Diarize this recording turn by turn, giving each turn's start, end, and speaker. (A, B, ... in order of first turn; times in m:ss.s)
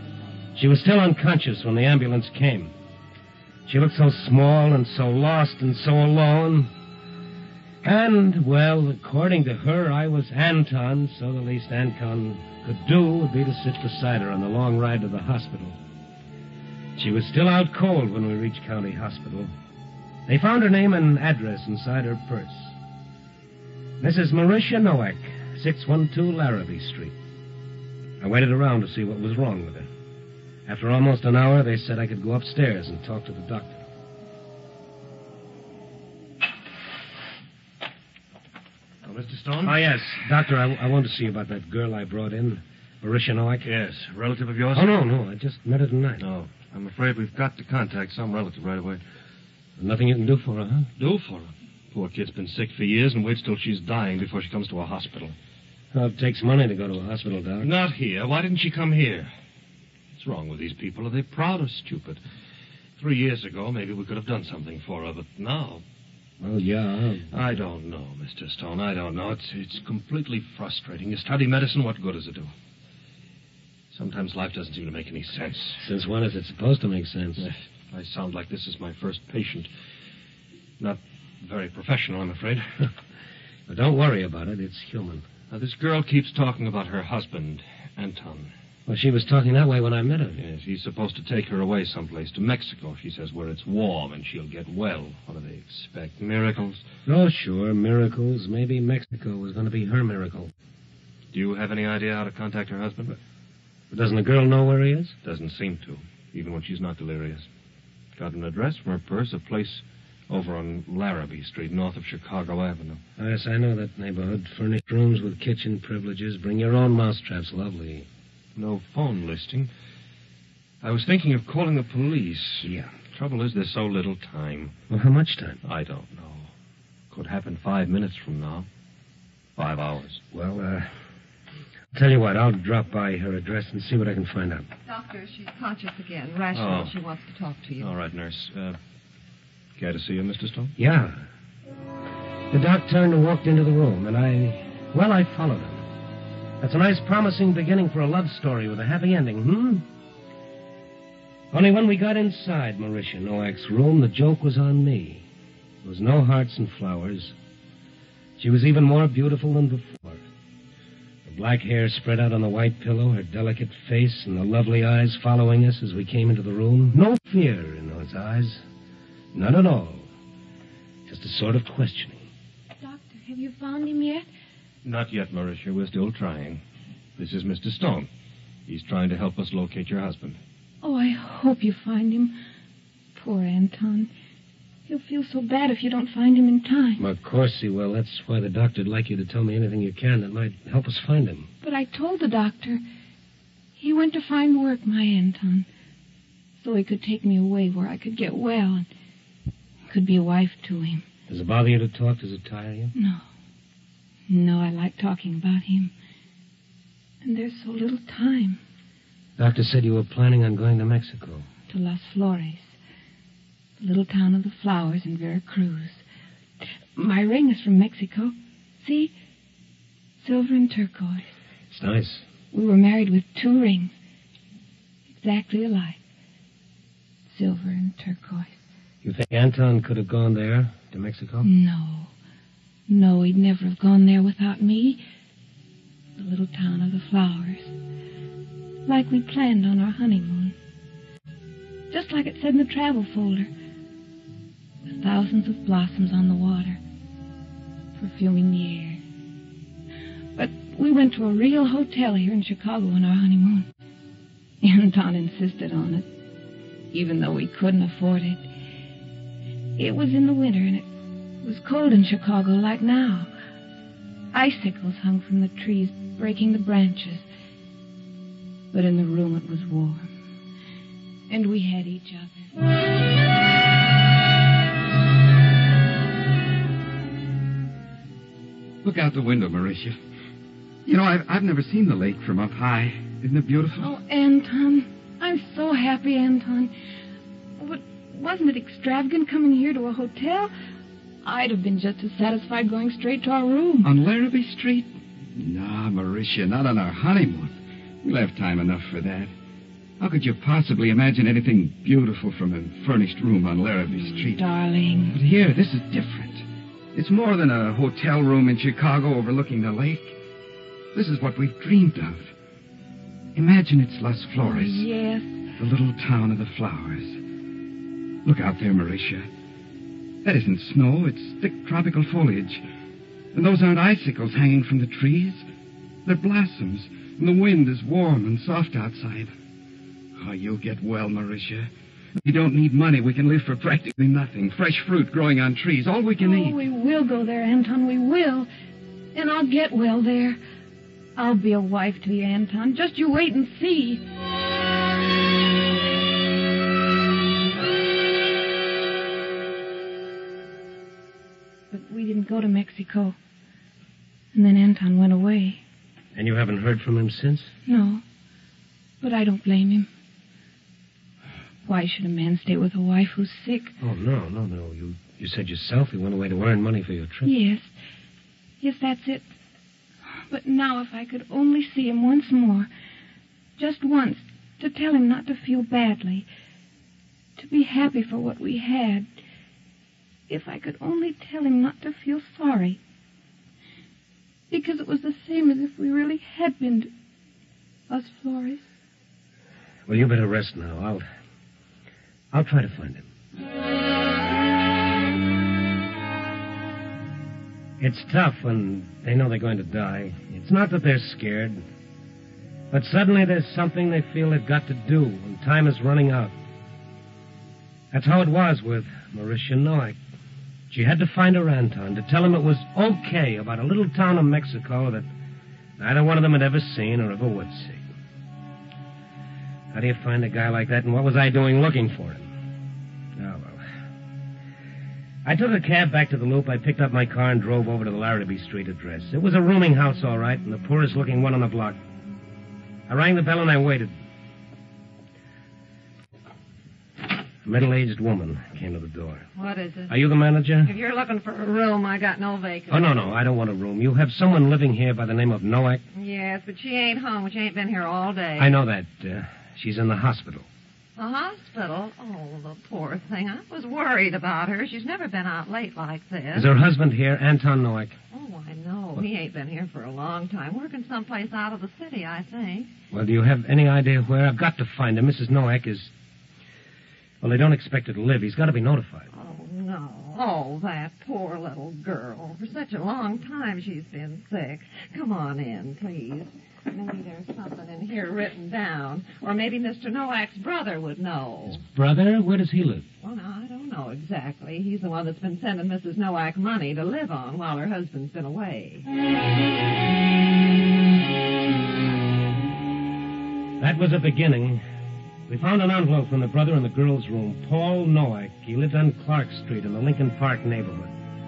0:00.6-0:02.7 A
0:03.7-0:06.7 A
0:07.8-0:15.8 A
0:17.0-0:19.5 A
0:20.3-0:22.8 A
0:24.0-0:27.1 A
0:28.2-0:29.9 A
0:30.7-0:33.8 A
0:39.0-0:39.8 B
0:39.6-0:43.7 A
0:43.6-0:44.9 B
0:44.7-0:46.2 A
0:46.2-0:49.0 B
0:49.8-0:50.9 A
0:51.0-0:55.4 B
0:55.9-0:57.7 A
0:57.6-0:59.3 B
1:00.2-1:02.2 B
1:03.0-1:05.8 B
1:06.4-1:07.3 A
1:07.3-1:12.5 B
1:13.9-1:15.8 B
1:15.8-1:17.5 A
1:17.4-1:19.7 B
1:20.8-1:22.9 B
1:23.7-1:25.3 A
1:25.5-1:28.5 B
1:28.9-1:30.4 A
1:30.4-1:36.8 B
1:37.1-1:40.5 A
1:41.3-1:43.2 B
1:43.9-1:45.2 A
1:45.2-1:47.5 B
1:48.2-1:53.0 B
1:53.2-1:58.1 A
1:58.6-1:59.7 B
2:00.8-2:04.7 B
2:04.9-2:05.6 A
2:05.6-2:06.5 B
2:07.1-2:08.7 B
2:09.6-2:10.2 B
2:10.3-2:10.9 A
2:11.9-2:14.7 A
2:14.9-2:17.9 C
2:16.5-2:16.9 B
2:17.8-2:18.8 B
2:19.8-2:20.8 B
2:20.8-2:21.2 A
2:22.5-2:25.9 A
2:26.6-2:29.9 A
2:31.5-2:35.2 A
2:35.8-2:37.4 A
2:38.4-2:40.2 A
2:41.3-2:48.6 A
2:49.3-2:50.1 A
2:51.1-2:52.3 A
2:52.8-2:54.3 D
2:54.8-2:56.6 B
2:57.2-2:58.1 B
2:58.7-3:00.4 B
3:00.8-3:02.4 D
3:03.2-3:04.1 D
3:04.9-3:07.0 D
3:07.0-3:11.5 A
3:11.6-3:12.8 D
3:13.8-3:15.7 D
3:16.6-3:18.9 D
3:19.9-3:21.0 D
3:21.3-3:22.9 A
3:23.0-3:23.2 D
3:24.3-3:25.9 D
3:27.2-3:28.6 D
3:29.4-3:31.5 A
3:31.7-3:32.7 D
3:33.8-3:36.0 D
3:37.0-3:39.1 D
3:40.2-3:41.3 D
3:41.7-3:42.2 A
3:42.5-3:43.9 D
3:45.1-3:46.0 D
3:47.3-3:48.6 D
3:49.0-3:51.5 A
3:51.4-3:52.1 D
3:52.9-3:55.0 D
3:56.2-3:57.7 D
3:58.9-4:00.6 D
4:01.9-4:03.5 D
4:04.9-4:06.8 D
4:08.0-4:09.0 D
4:10.4-4:13.7 D
4:14.6-4:16.1 D
4:16.9-4:18.4 D
4:19.8-4:20.9 D
4:21.4-4:23.3 D
4:24.3-4:27.2 D
4:28.7-4:30.1 D
4:31.3-4:32.4 D
4:38.8-4:40.0 E
4:40.8-4:43.9 E
4:43.8-4:46.7 D
4:47.6-4:50.5 D
4:51.2-4:53.9 D
4:53.8-4:59.3 E
5:00.0-5:04.4 E
5:03.9-5:05.2 D
5:05.0-5:10.2 E
5:10.9-5:12.3 E
5:13.4-5:14.9 E
5:14.4-5:15.3 D
5:15.6-5:17.2 E
5:18.2-5:19.3 E
5:20.2-5:22.6 E
5:23.3-5:25.5 E
5:26.0-5:29.3 E
5:30.2-5:36.6 E
5:36.2-5:38.5 D
5:39.2-5:40.4 D
5:41.2-5:44.0 D
5:51.7-5:53.2 D
5:54.3-5:55.6 D
5:56.2-5:57.5 A
5:57.7-5:58.0 D
5:59.0-5:59.9 D
6:01.6-6:03.7 D
6:03.8-6:07.3 A
6:07.2-6:07.7 D
6:08.6-6:09.3 D
6:10.1-6:12.7 D
6:13.6-6:16.3 D
6:17.4-6:19.1 D
6:20.3-6:22.8 D
6:24.5-6:26.9 D
6:27.9-6:28.6 D
6:29.9-6:31.0 A
6:32.3-6:33.1 A
6:37.8-6:41.6 A
6:42.7-6:46.3 A
6:47.9-6:50.0 A
6:50.7-6:55.1 A
6:55.8-6:57.9 A
6:59.7-7:02.3 A
7:03.2-7:03.6 A
7:05.2-7:11.8 A
7:12.9-7:14.0 A
7:17.4-7:19.3 A
7:19.4-7:20.0 C
7:19.9-7:20.7 A
7:20.6-7:23.1 C
7:22.7-7:25.8 A
7:25.9-7:28.5 C
7:28.4-7:30.5 A
7:31.0-7:36.5 C
7:36.3-7:38.0 A
7:38.1-7:42.7 C
7:42.9-7:45.9 A
7:47.2-7:49.1 A
7:49.1-8:01.6 C
8:01.5-8:02.9 A
8:03.0-8:08.9 C
8:13.6-8:14.6 A
8:15.3-8:20.9 A